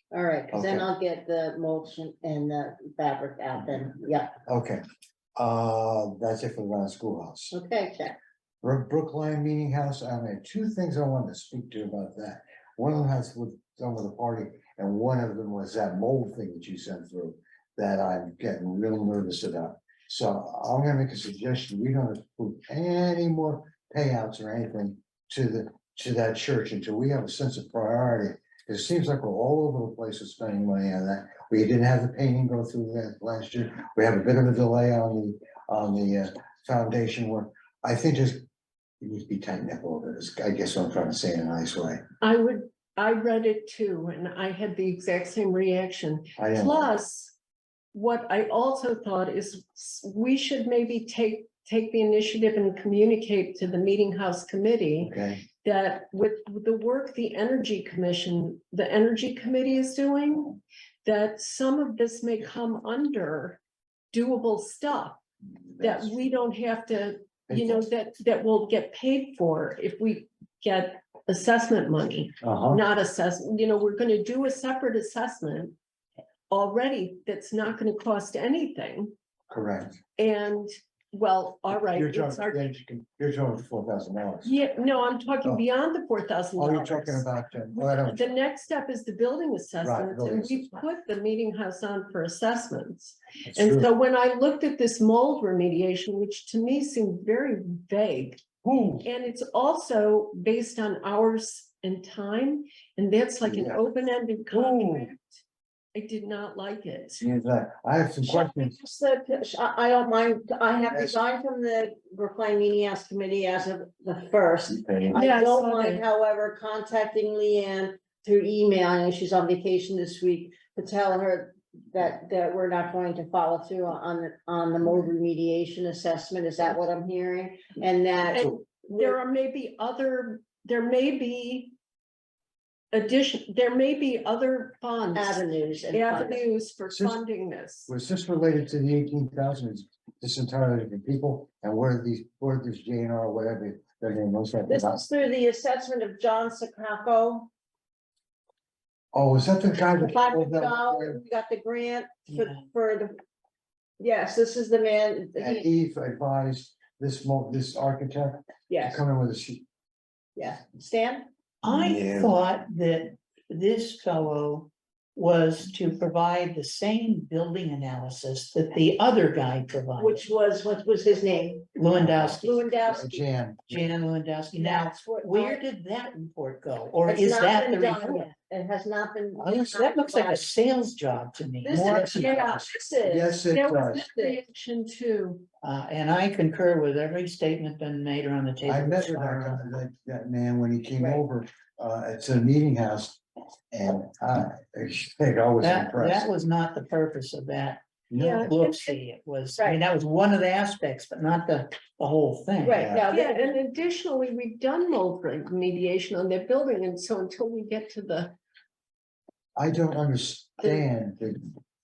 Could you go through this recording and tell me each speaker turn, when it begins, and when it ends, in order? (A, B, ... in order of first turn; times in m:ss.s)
0:00.1-0:04.3 A
0:00.5-0:00.9 B
0:04.5-0:04.8 B
0:05.4-0:07.5 B
0:07.5-0:08.2 A
0:08.6-0:38.4 B
0:39.0-0:42.0 B
0:42.2-0:47.3 C
0:46.4-0:46.9 B
0:47.9-1:03.6 C
0:55.0-0:55.4 B
1:04.1-1:05.2 C
1:05.7-1:06.1 B
1:05.8-1:15.8 C
1:07.5-1:07.8 B
1:12.4-1:12.8 B
1:16.5-1:19.1 C
1:19.5-1:20.0 B
1:20.2-1:22.7 C
1:21.7-1:24.6 B
1:24.4-1:38.4 C
1:26.6-1:28.4 B
1:29.8-1:30.8 B
1:33.4-1:33.9 B
1:38.6-1:39.1 B
1:39.0-1:45.4 C
1:43.4-1:43.8 B
1:44.5-1:45.1 B
1:45.9-1:47.2 C
1:47.2-1:48.7 B
1:48.2-2:09.2 A
1:50.9-1:51.1 B
1:54.7-1:55.2 B
1:55.1-1:56.0 C
2:08.3-2:11.7 C
2:12.9-2:17.9 C
2:15.1-2:16.4 A
2:16.8-2:17.2 B
2:17.9-2:25.0 B
2:24.7-2:27.5 A
2:29.1-2:31.2 B
2:30.0-2:33.1 A
2:32.3-2:32.6 D
2:34.0-2:35.6 A
2:35.4-2:39.6 B
2:38.7-2:39.0 A
2:40.4-2:41.3 A
2:41.6-2:50.2 D
2:41.7-2:42.3 B
2:50.0-2:51.7 A
2:51.8-2:52.6 D
2:51.9-2:53.8 B
2:52.4-2:53.2 A
2:53.7-2:58.3 D
2:54.6-2:55.6 A
2:57.0-3:00.5 A
2:59.4-2:59.8 B
2:59.5-3:02.6 D
3:01.6-3:02.8 A
3:01.8-3:05.4 C
3:03.0-3:04.1 B
3:05.6-3:09.6 D
3:08.6-3:13.2 B
3:13.7-3:16.3 B
3:15.6-3:17.8 D
3:18.1-3:18.5 B
3:18.1-3:19.0 C
3:18.4-3:22.9 D
3:19.6-3:19.8 A
3:22.6-3:23.6 A
3:22.7-3:23.1 B
3:23.1-3:28.3 C
3:29.6-3:31.6 B
3:30.6-3:30.8 C